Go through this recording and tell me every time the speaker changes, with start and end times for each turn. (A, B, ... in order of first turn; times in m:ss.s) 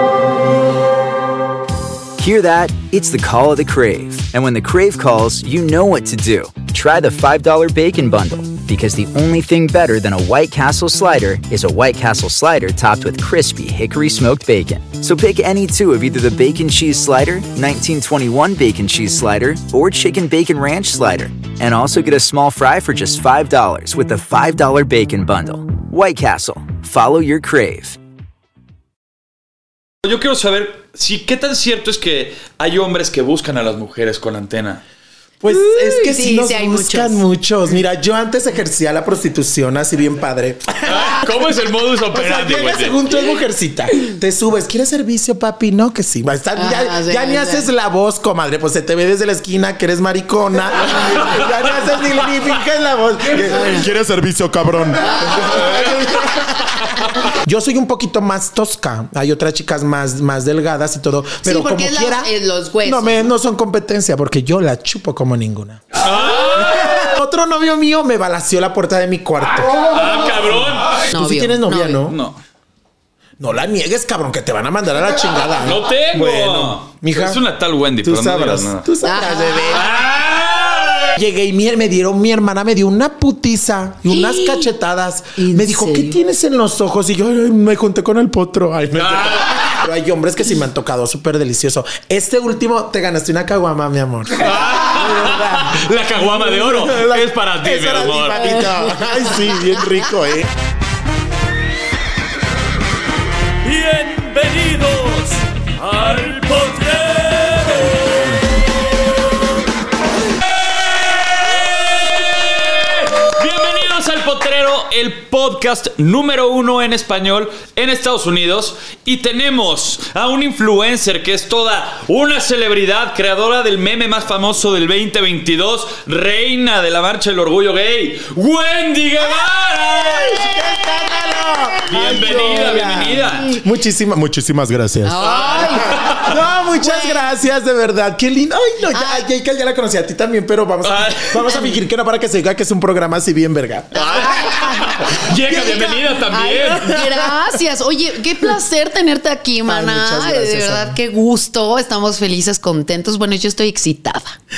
0:02.2-0:28.0 A
0:30.0-0:34.8 B
0:35.4-0:41.3 C
0:35.5-0:37.2 D
0:40.8-0:43.0 B
0:42.1-0:53.9 C
0:46.6-0:47.7 D
0:51.0-0:51.4 B
0:53.5-0:53.8 D
0:53.6-0:55.9 E
0:55.0-1:02.3 C
0:55.5-0:55.9 B
1:01.4-1:03.3 D
1:02.8-1:10.0 C
1:05.9-1:07.2 B
1:09.8-1:11.0 B
1:11.0-1:12.2 C
1:11.1-1:12.0 D
1:12.1-1:12.4 B
1:13.4-1:17.4 C
1:15.6-1:18.9 B
1:18.0-1:19.9 C
1:19.0-1:19.8 D
1:19.7-1:21.2 B
1:21.1-1:40.5 C
1:24.1-1:24.7 D
1:25.4-1:26.2 D
1:29.0-1:29.8 B
1:34.4-1:38.6 B
1:38.4-1:39.8 D
1:43.6-1:48.4 B
1:50.5-2:10.5 B
2:10.0-2:24.3 C
2:11.0-2:12.8 D
2:11.9-2:13.5 B
2:13.3-2:13.6 D
2:15.0-2:17.3 D
2:15.2-2:16.4 B
2:18.9-2:19.2 D
2:20.8-2:21.4 B
2:23.9-2:27.0 B
2:23.9-2:34.4 D
2:29.7-2:31.0 C